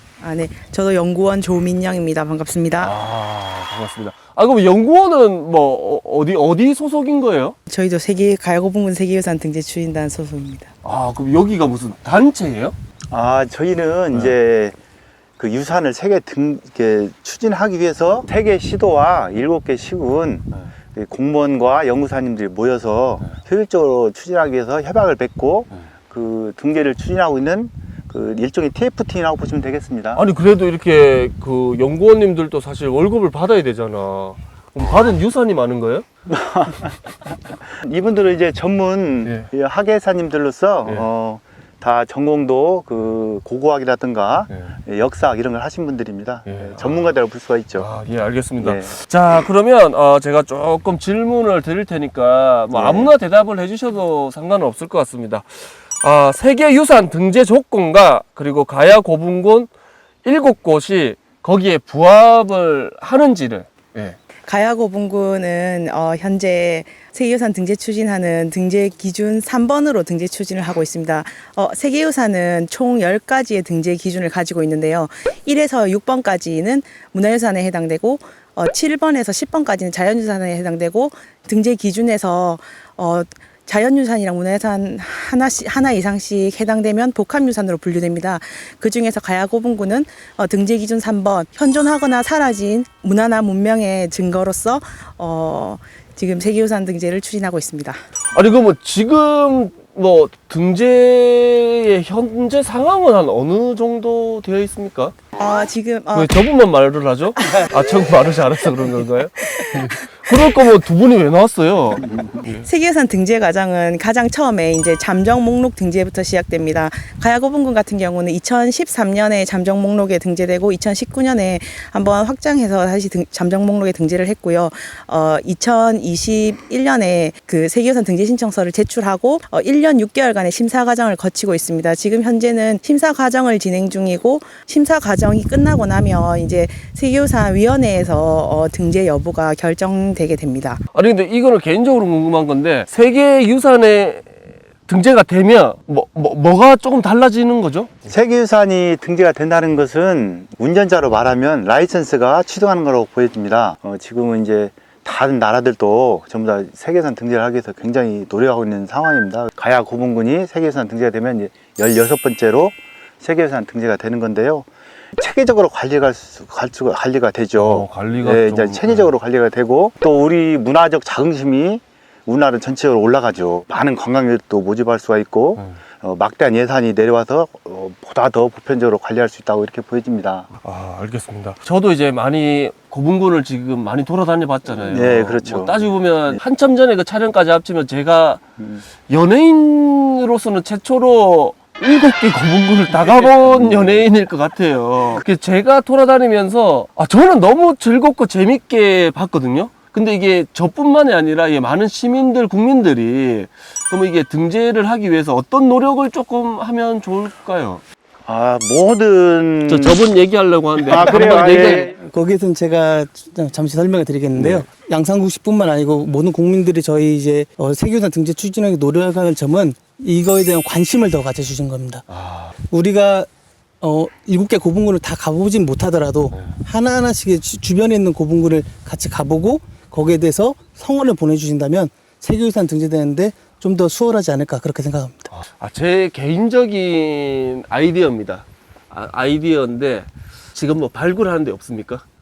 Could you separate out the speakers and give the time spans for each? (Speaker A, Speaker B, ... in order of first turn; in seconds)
Speaker A: 0.2-2.9, 7.7-10.7, 64.5-98.0, 105.3-106.3, 109.6-110.3, 112.1-140.8
Speaker B: 2.8-7.5, 10.8-12.8, 30.1-36.1, 39.2-39.5, 46.5-47.1, 47.8-59.7, 60.2-64.2, 98.3-105.2, 106.1-112.7, 140.9-144.3, 144.8-147.9, 167.6-169.1, 180.6-188.4, 189.1-207.8, 209.7-211.9, 214.4-214.7, 222.1-222.5, 235.6-242.0
Speaker C: 13.1-14.8, 15.4-30.2, 36.3-47.9, 48.6-48.9, 52.7-53.1, 148.1-180.5, 184.9-186.4, 188.6-188.8, 193.2-194.1, 208.2-210.0, 210.8-211.9
Speaker D: 211.9-222.1, 222.7-223.3, 223.8-235.3